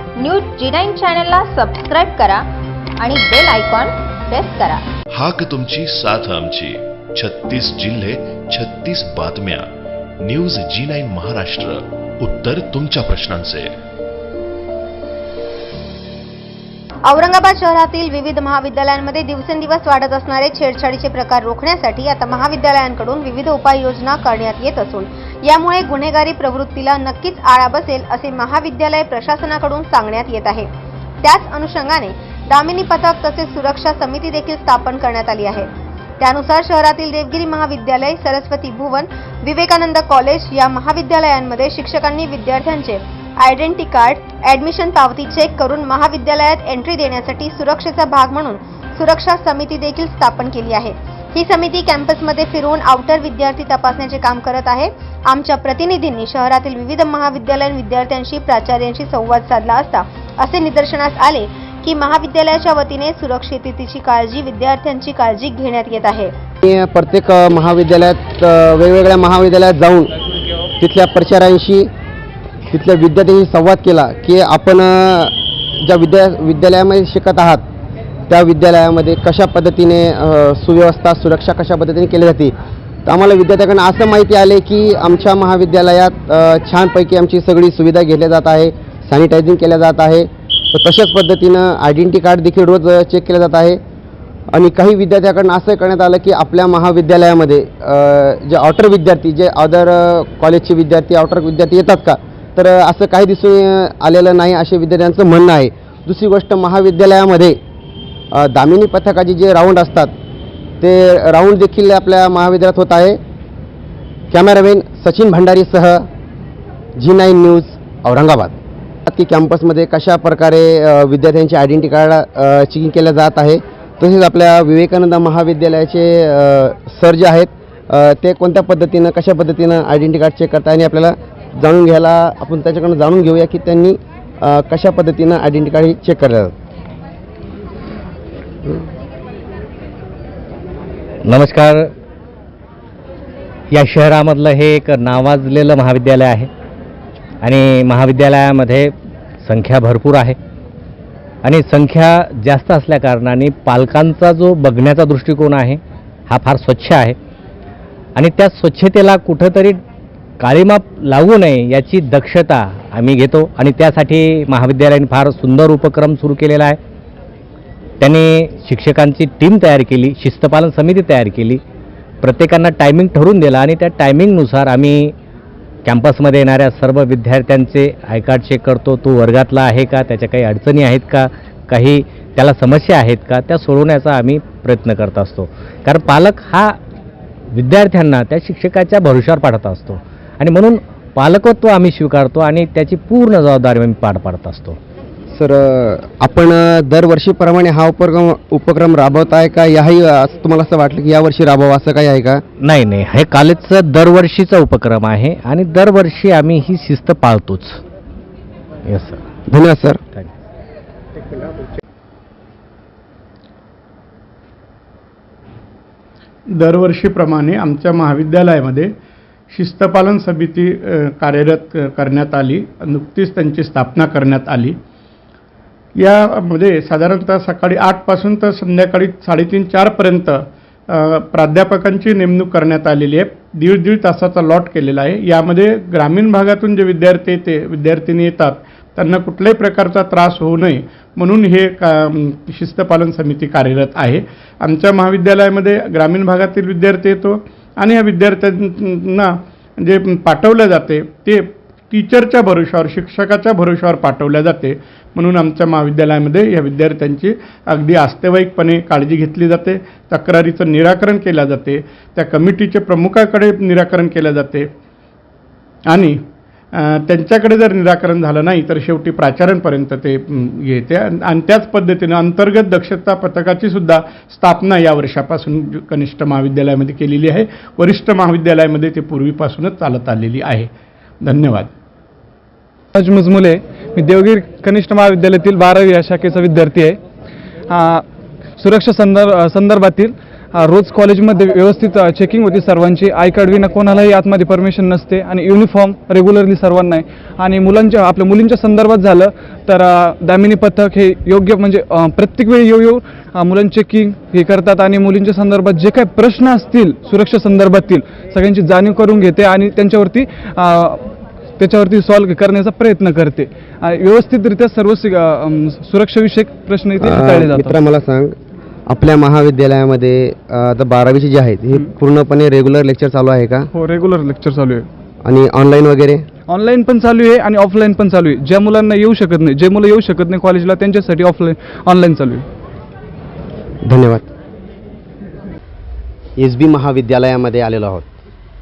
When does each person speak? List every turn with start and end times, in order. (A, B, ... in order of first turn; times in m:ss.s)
0:00.2-0:02.5 A
0:03.0-0:04.8 A
0:05.1-0:13.7 B
0:17.0-0:30.7 C
0:31.2-0:35.7 C
0:36.2-1:06.3 C
1:06.6-1:10.1 D
1:10.8-1:11.9 D
1:12.7-1:17.6 D
1:18.3-1:22.5 D
1:23.0-1:33.8 D
1:34.5-1:47.6 D
1:48.3-1:50.1 D
1:50.8-1:53.2 D
1:54.3-1:56.1 D
1:57.0-1:58.5 D
1:59.1-2:16.5 D
2:21.2-2:21.9 E
2:23.7-2:26.5 E
2:27.4-2:28.9 E
2:29.4-2:30.4 E
2:31.4-2:37.2 E
2:38.2-2:39.8 E
2:40.4-2:46.8 E
2:48.0-2:51.6 E
2:52.2-2:55.1 E
2:55.8-3:06.8 E
3:07.5-3:14.8 E
3:15.3-3:22.4 D
3:22.6-3:27.8 E
3:28.9-3:29.2 E
3:29.5-3:30.0 D
3:36.6-3:38.9 F
3:39.5-3:44.8 F
3:46.0-4:24.7 F
4:25.9-4:26.2 F
4:26.7-4:40.7 F
4:41.2-4:41.7 F
4:42.9-4:47.0 G
4:47.7-4:48.0 G
4:48.6-5:11.0 G
5:11.6-5:17.8 G
5:17.0-5:18.3 D
5:18.9-5:23.7 D
5:23.7-5:24.9 G
5:25.2-5:26.2 D
5:26.5-5:32.5 G
5:33.8-5:34.3 D
5:36.4-5:38.0 D